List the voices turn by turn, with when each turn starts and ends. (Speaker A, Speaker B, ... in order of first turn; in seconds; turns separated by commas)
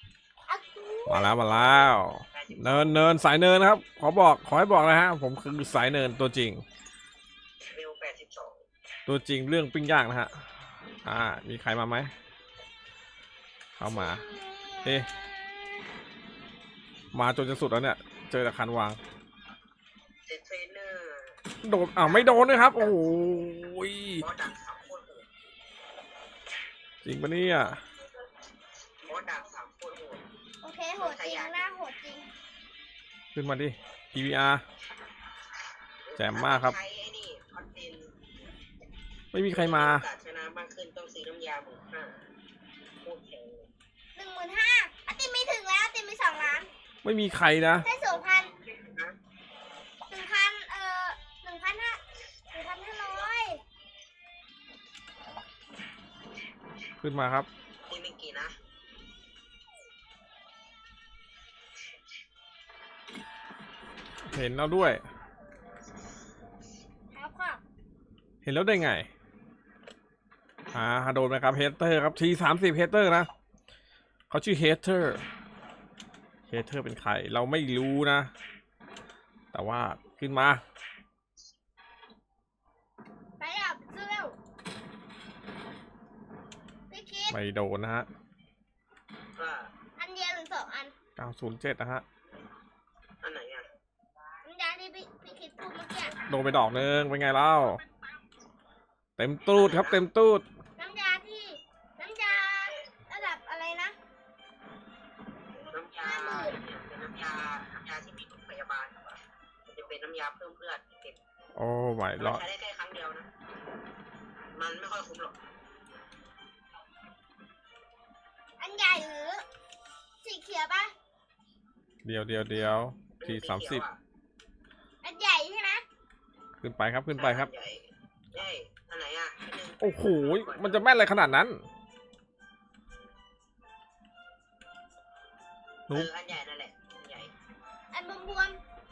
Speaker A: 0.5-1.4, Speaker B: 1.1-6.6, Speaker C: 2.3-3.1, Speaker C: 7.7-8.6, Speaker B: 9.1-12.1, Speaker B: 13.8-14.2, Speaker A: 13.9-15.9, Speaker B: 14.8-15.1, Speaker B: 17.1-19.0, Speaker C: 20.3-21.4, Speaker B: 21.6-24.3, Speaker C: 22.0-23.5, Speaker C: 24.2-25.3, Speaker B: 27.0-27.8, Speaker C: 29.1-30.2, Speaker A: 30.6-32.3, Speaker C: 31.0-31.8, Speaker B: 33.3-34.6, Speaker C: 36.0-38.1, Speaker B: 36.2-36.8, Speaker B: 39.3-40.1, Speaker C: 39.5-42.2, Speaker C: 43.0-43.7, Speaker A: 44.1-46.7, Speaker B: 47.0-47.9, Speaker A: 47.8-48.5, Speaker C: 47.8-49.2, Speaker A: 50.1-52.0, Speaker A: 52.5-53.6, Speaker C: 53.0-53.3, Speaker B: 57.0-57.5, Speaker C: 57.9-58.6, Speaker B: 64.2-65.0, Speaker A: 67.1-67.6, Speaker B: 68.4-69.1, Speaker B: 70.7-73.3, Speaker B: 74.3-75.2, Speaker B: 76.5-78.3, Speaker B: 79.5-80.6, Speaker A: 83.4-84.4, Speaker A: 86.9-87.4, Speaker B: 87.3-88.1, Speaker C: 89.4-89.7, Speaker A: 90.0-90.9, Speaker B: 91.2-92.0, Speaker C: 93.2-93.7, Speaker A: 94.4-96.2, Speaker B: 96.3-97.8, Speaker B: 99.2-100.5, Speaker C: 99.5-100.1, Speaker A: 100.8-104.0, Speaker A: 105.6-106.6, Speaker C: 105.7-111.2, Speaker B: 111.6-112.4, Speaker C: 112.2-113.3, Speaker C: 114.5-115.4, Speaker A: 118.6-119.4, Speaker A: 120.2-120.9, Speaker B: 122.0-123.8, Speaker C: 123.2-124.0, Speaker A: 125.0-125.8, Speaker B: 126.6-127.5, Speaker C: 127.1-131.1, Speaker B: 129.8-131.7, Speaker C: 135.9-137.3, Speaker A: 137.9-138.6